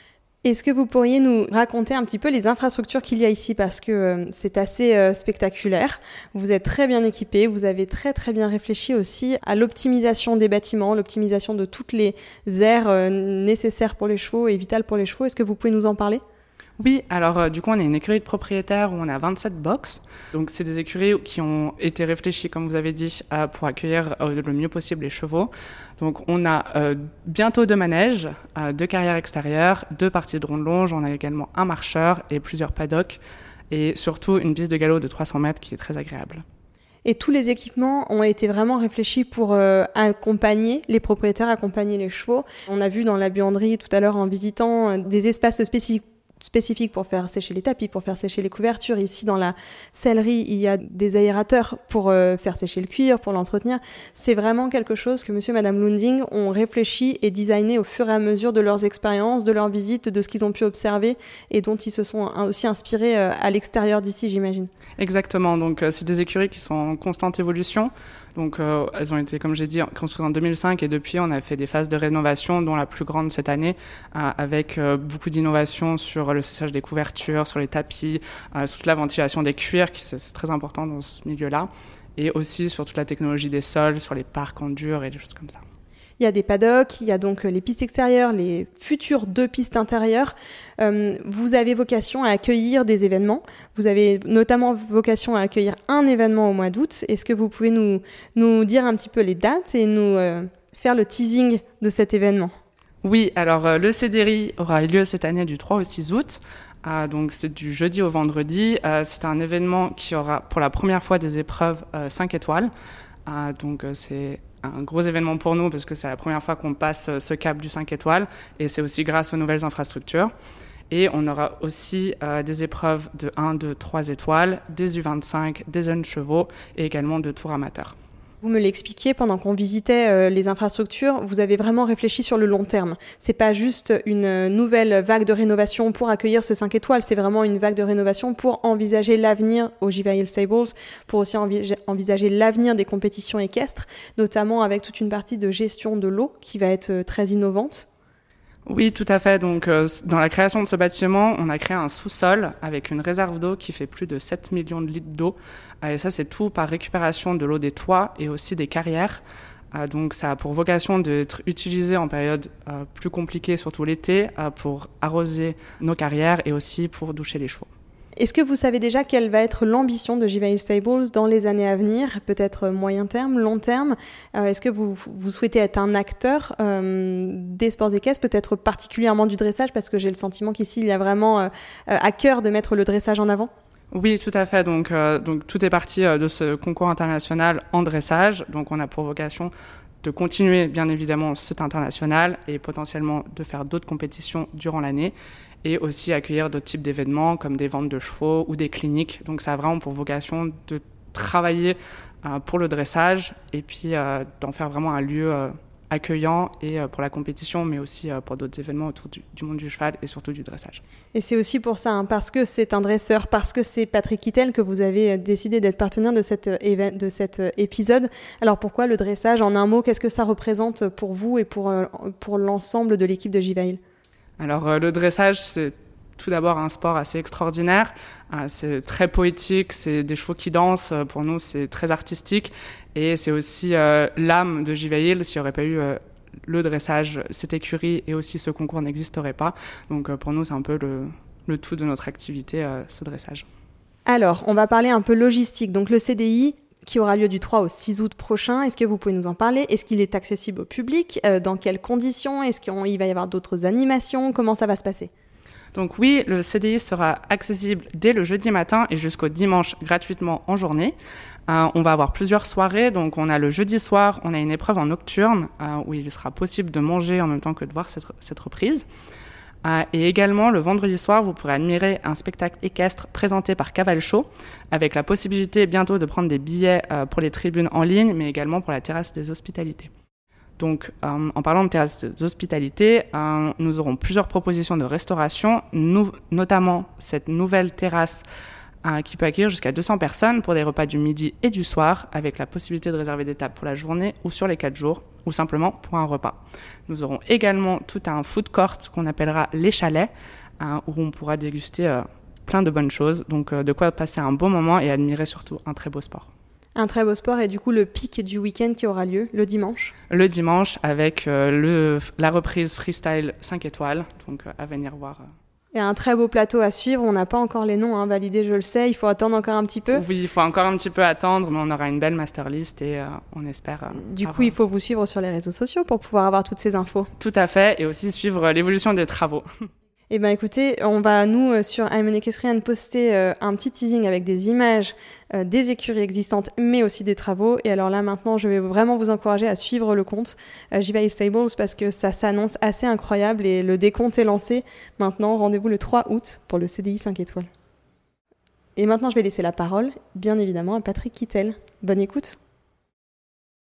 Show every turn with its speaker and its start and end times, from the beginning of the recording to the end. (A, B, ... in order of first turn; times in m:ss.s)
0:00.4-0:16.2 A
0:16.8-0:36.4 B
0:37.0-1:04.7 A
1:05.0-1:25.6 B
1:26.2-1:42.5 A
1:43.0-1:52.7 B
1:53.2-2:00.3 B
2:00.9-2:08.0 B
2:08.4-2:27.8 A
2:28.7-2:39.2 B
2:39.7-2:47.7 B
2:48.2-3:03.5 A
3:03.9-3:30.8 B
3:31.1-3:43.8 A
3:44.4-4:03.4 B
4:04.1-4:15.1 A
4:15.7-4:21.0 B
4:21.5-4:28.8 B
4:29.6-4:39.9 B
4:40.6-4:48.2 B
4:48.8-5:06.3 B
5:06.8-5:09.9 A
5:10.1-5:15.3 B
5:15.7-5:20.0 A
5:19.9-5:24.5 B
5:23.9-5:27.1 A
5:27.2-5:29.4 B
5:30.1-5:47.5 A
5:48.8-5:52.4 A